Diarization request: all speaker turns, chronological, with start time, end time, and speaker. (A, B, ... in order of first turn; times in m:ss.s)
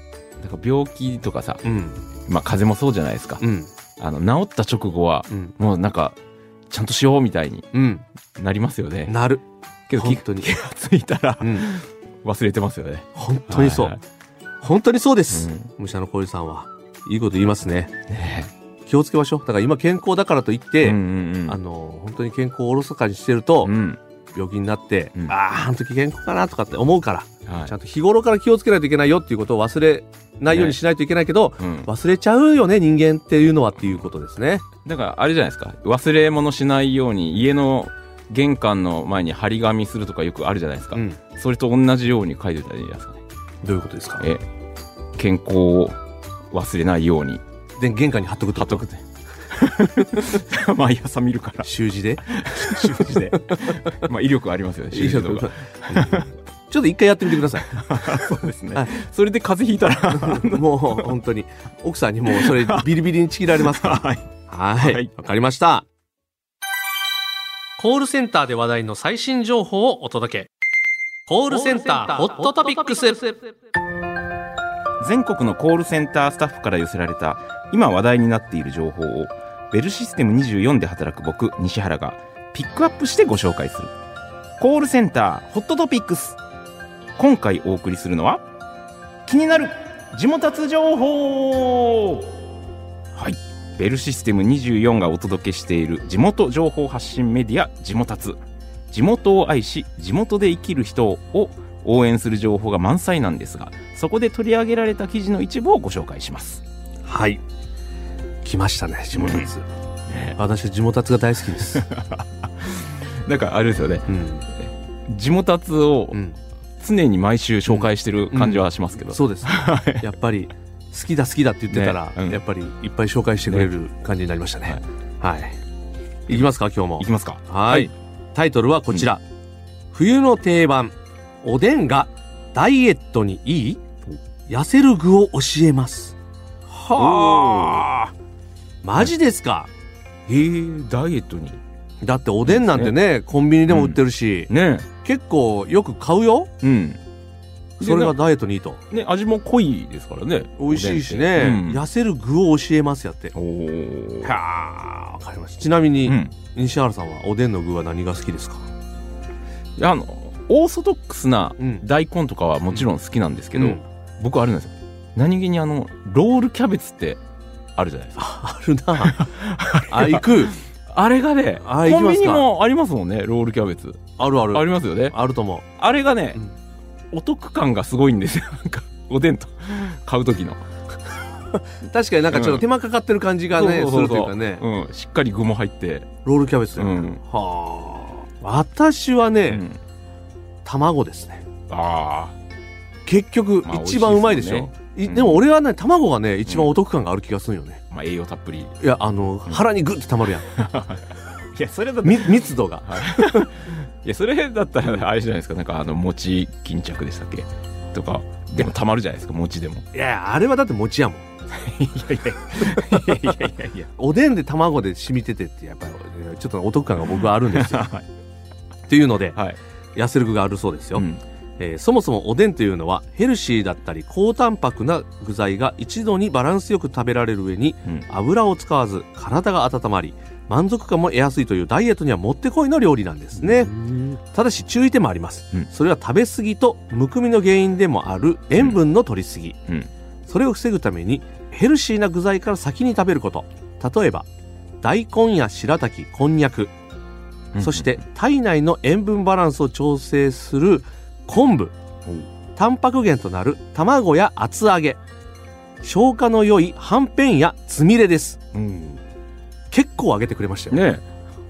0:00.4-0:01.6 A
0:01.6-0:02.0 B
0:02.2-0:03.4 A
0:03.4-0:03.7 B
0:04.0-0:06.2 A
0:06.7-0:07.7 A
0:07.7-0:08.0 B
0:08.4-0:09.1 A
0:09.1-0:09.4 B
0:09.9-0:14.0 A
0:10.0-0:10.5 B
0:11.4-0:11.7 B
0:13.2-0:14.0 B
0:14.6-0:17.9 B
0:15.3-0:15.7 A
0:18.1-0:18.5 A
0:18.9-0:23.7 B
0:20.8-0:21.6 A
0:23.6-0:24.0 A
0:24.4-0:34.6 B
0:27.5-0:27.7 A
0:30.5-0:30.8 A
0:31.6-0:31.9 A
0:34.8-0:43.2 A
0:40.9-0:41.2 B
0:43.6-0:44.3 B
0:45.2-0:46.0 A
0:46.5-0:47.4 A
0:47.8-0:48.8 B
0:48.6-0:51.7 A
0:51.6-0:54.0 B
0:52.2-0:56.3 A
0:54.9-0:59.0 B
0:57.6-1:01.1 A
1:00.1-1:05.9 B
1:02.3-1:02.9 A
1:03.6-1:04.3 A
1:04.8-1:05.1 A
1:07.8-1:10.5 B
1:11.3-1:13.4 B
1:15.0-1:23.9 A
1:24.6-1:26.4 A
1:27.2-1:28.4 A
1:29.2-1:32.4 A
1:33.2-1:38.4 A
1:38.9-1:46.6 A
1:47.1-1:47.4 B
1:48.4-1:49.6 B
1:49.2-1:49.5 A
1:50.1-1:50.4 A
1:50.4-1:51.9 B
1:51.6-1:56.2 A
1:54.1-1:54.5 B
1:56.8-2:00.1 A
1:57.7-2:05.6 B
2:01.7-2:02.4 A
2:06.3-2:09.2 B
2:07.0-2:07.9 A
2:09.9-2:13.8 B
2:14.5-2:16.2 B
2:16.7-2:17.9 B
2:17.0-2:18.1 A
2:18.8-2:19.7 B
2:20.3-2:21.6 A
2:22.0-2:24.5 B
2:22.4-2:23.0 A
2:23.7-2:24.9 A
2:25.0-2:26.5 B
2:26.6-2:27.0 A
2:27.8-2:28.2 A
2:27.8-2:28.8 B
2:28.9-2:31.8 A
2:30.6-2:33.3 B
2:33.3-2:34.3 A
2:34.2-2:38.7 B
2:36.1-2:36.3 A
2:39.8-2:47.2 A
2:41.6-2:41.8 B
2:43.6-2:43.8 B
2:47.8-2:48.2 A
2:48.2-2:49.3 B
2:49.0-2:55.2 A
2:49.8-2:50.6 B
2:51.6-2:52.4 B
2:54.2-2:55.7 B
2:55.8-2:56.4 A
2:57.1-3:00.6 A
3:01.8-3:04.6 B
3:02.3-3:02.6 A
3:03.5-3:06.1 A
3:06.2-3:09.6 B
3:06.8-3:07.2 A
3:09.5-3:09.8 A
3:10.6-3:11.4 B
3:11.7-3:12.4 A
3:13.1-3:17.8 B
3:13.6-3:15.4 A
3:17.9-3:18.8 A
3:18.8-3:20.5 B
3:20.5-3:29.9 A
3:22.0-3:23.5 B
3:29.9-3:31.3 B
3:31.5-3:33.9 A
3:32.6-3:33.4 B
3:34.0-3:37.9 B
3:37.2-3:38.1 A
3:38.9-3:39.4 B
3:40.0-3:41.1 B
3:41.0-3:41.2 A
3:41.6-3:59.6 B
3:53.4-3:53.8 A
4:00.3-4:04.3 B
4:04.8-4:06.7 B
4:07.5-4:07.9 A
4:07.6-4:11.8 B
4:12.6-4:15.0 B
4:15.8-4:18.5 B
4:18.5-4:19.0 A
4:19.7-4:20.8 B
4:20.7-4:21.0 A